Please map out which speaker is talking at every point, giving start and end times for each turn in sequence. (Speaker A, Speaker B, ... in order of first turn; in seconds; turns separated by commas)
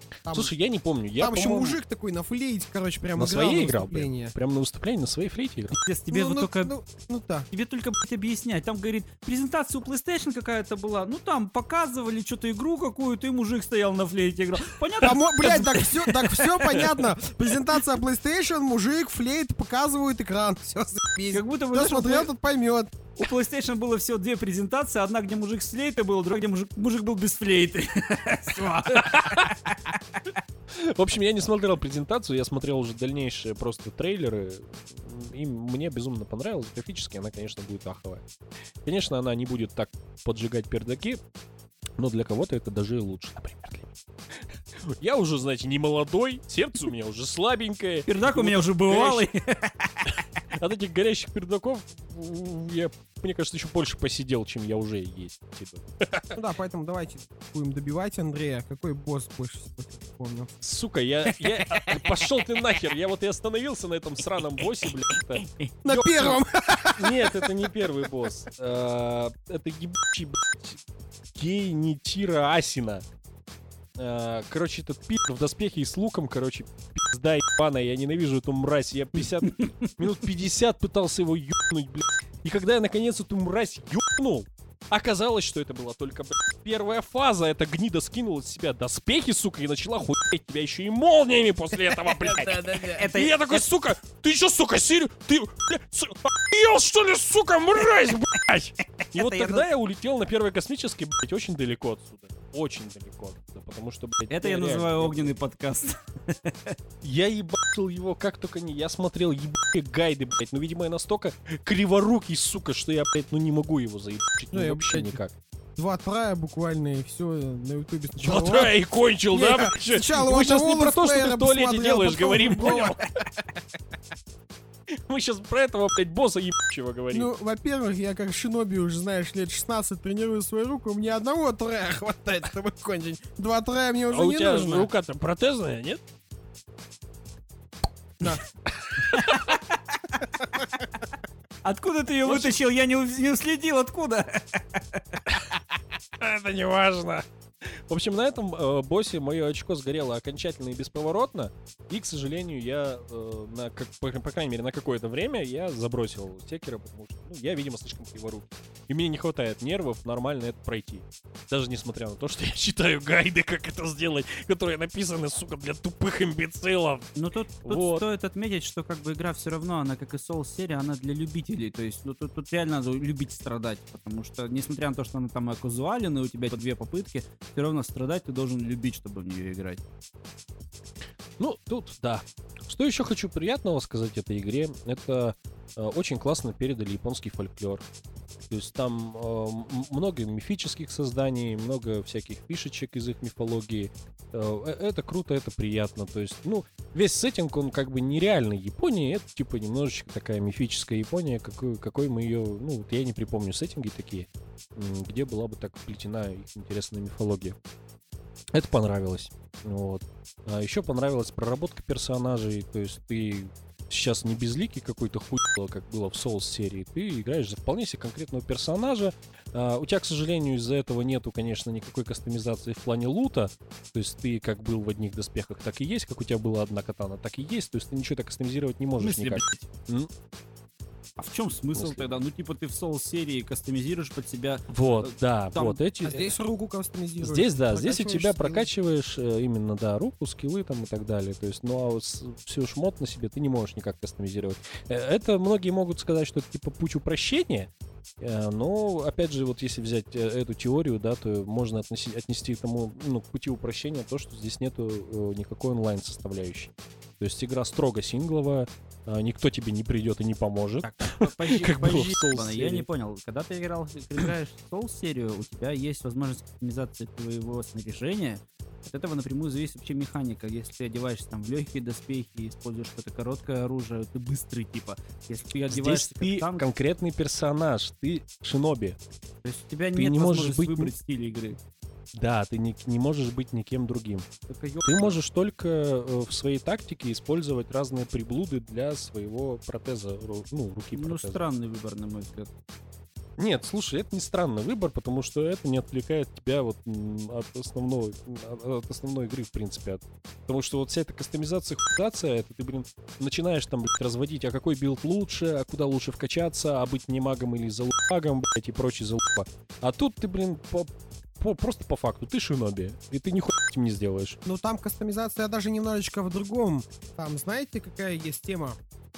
Speaker A: 0.2-0.5, Speaker B: 0.3-1.8, Speaker A: 1.2-4.3, Speaker B: 3.2-5.8, Speaker C: 5.8-6.7, Speaker A: 6.1-7.5, Speaker C: 7.5-16.6, Speaker A: 15.0-22.9, Speaker C: 21.3-22.3, Speaker C: 23.2-30.0, Speaker B: 28.9-29.5, Speaker B: 30.7-38.3, Speaker B: 38.9-41.2, Speaker B: 42.0-44.0, Speaker B: 44.8-49.3, Speaker C: 48.1-50.2, Speaker B: 50.6-56.4, Speaker A: 56.3-60.6, Speaker B: 60.6-70.8, Speaker C: 61.4-62.2, Speaker A: 65.8-67.5, Speaker B: 71.3-73.0, Speaker B: 74.0-105.3, Speaker A: 92.2-93.0, Speaker C: 92.8-93.7, Speaker C: 99.0-99.7, Speaker C: 104.3-106.8, Speaker B: 107.0-115.3, Speaker A: 114.5-115.2, Speaker A: 115.8-118.7, Speaker B: 118.2-123.1, Speaker A: 119.3-123.0, Speaker B: 124.9-127.3, Speaker A: 127.1-134.9, Speaker B: 134.1-136.0, Speaker B: 138.8-139.5, Speaker C: 139.3-139.6, Speaker A: 140.4-140.7, Speaker C: 141.6-145.2, Speaker B: 142.2-142.6, Speaker B: 146.2-167.1, Speaker C: 167.2-179.8, Speaker B: 167.6-168.0, Speaker B: 181.4-187.8, Speaker B: 188.5-207.6, Speaker B: 208.5-230.1, Speaker C: 229.0-229.7, Speaker C: 231.2-235.8, Speaker B: 231.8-232.2, Speaker B: 234.7-236.3, Speaker A: 236.0-238.7, Speaker B: 237.2-262.9, Speaker C: 260.8-276.7, Speaker B: 275.7-279.0, Speaker C: 279.4-281.6, Speaker B: 279.9-280.9, Speaker B: 282.1-284.3, Speaker C: 284.5-285.2, Speaker B: 284.8-291.4, Speaker C: 290.9-292.5, Speaker B: 293.4-314.4, Speaker A: 314.4-318.8